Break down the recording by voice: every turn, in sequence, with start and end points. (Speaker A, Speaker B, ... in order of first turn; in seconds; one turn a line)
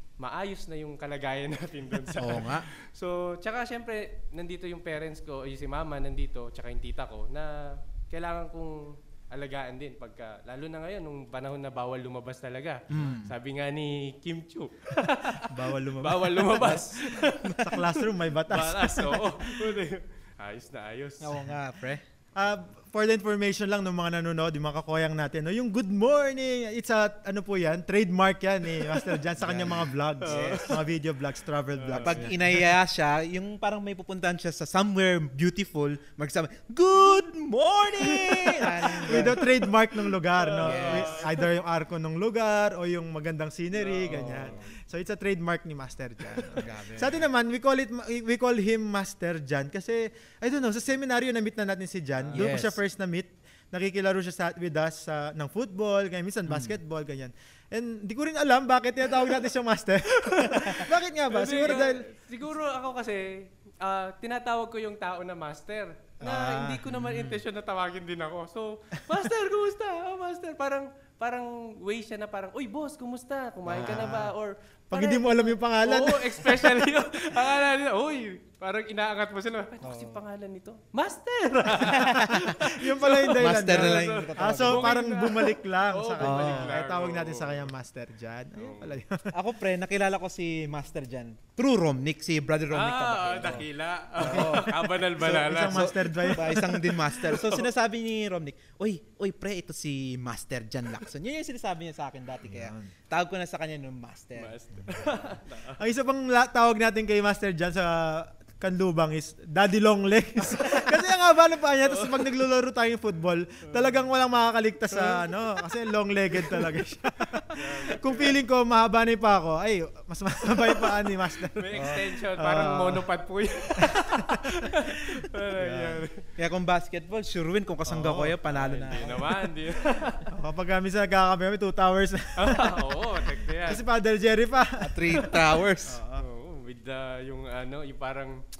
Speaker A: 0.2-21.5
Speaker B: 2.1-2.6
Speaker B: 12.9-13.3
Speaker C: 15.5-16.9
Speaker B: 16.5-17.8
Speaker C: 17.6-19.4
Speaker B: 21.2-22.0
Speaker C: 22.4-32.7
Speaker B: 29.4-30.8
Speaker A: 30.2-30.8
Speaker A: 31.8-32.3
Speaker B: 32.0-39.4
Speaker A: 38.1-39.5
Speaker C: 39.0-62.1
Speaker A: 40.1-41.4
Speaker B: 40.6-41.3
Speaker A: 43.7-44.7
Speaker B: 44.0-44.6
Speaker B: 46.5-47.2
Speaker A: 52.2-52.6
Speaker B: 52.3-52.8
Speaker B: 56.5-56.8
Speaker A: 61.3-87.7
Speaker C: 66.2-67.3
Speaker B: 67.0-67.3
Speaker B: 73.7-74.1
Speaker C: 73.7-74.3
Speaker C: 74.9-76.8
Speaker B: 79.8-80.2
Speaker B: 81.8-82.5
Speaker C: 82.2-89.3
Speaker B: 83.3-84.9
Speaker B: 86.2-86.7
Speaker A: 88.5-89.0
Speaker B: 89.3-93.7
Speaker A: 92.7-97.7
Speaker B: 94.2-104.5
Speaker C: 95.2-97.0
Speaker C: 102.5-102.9
Speaker A: 104.3-105.8
Speaker C: 105.7-123.0
Speaker A: 111.8-112.2
Speaker A: 117.5-118.4
Speaker A: 121.5-126.2
Speaker B: 121.7-122.0
Speaker C: 123.8-126.0
Speaker B: 126.4-129.3
Speaker C: 127.8-129.3
Speaker A: 128.5-130.2
Speaker C: 130.3-136.2
Speaker A: 132.4-133.8
Speaker B: 134.8-136.0
Speaker A: 136.2-138.4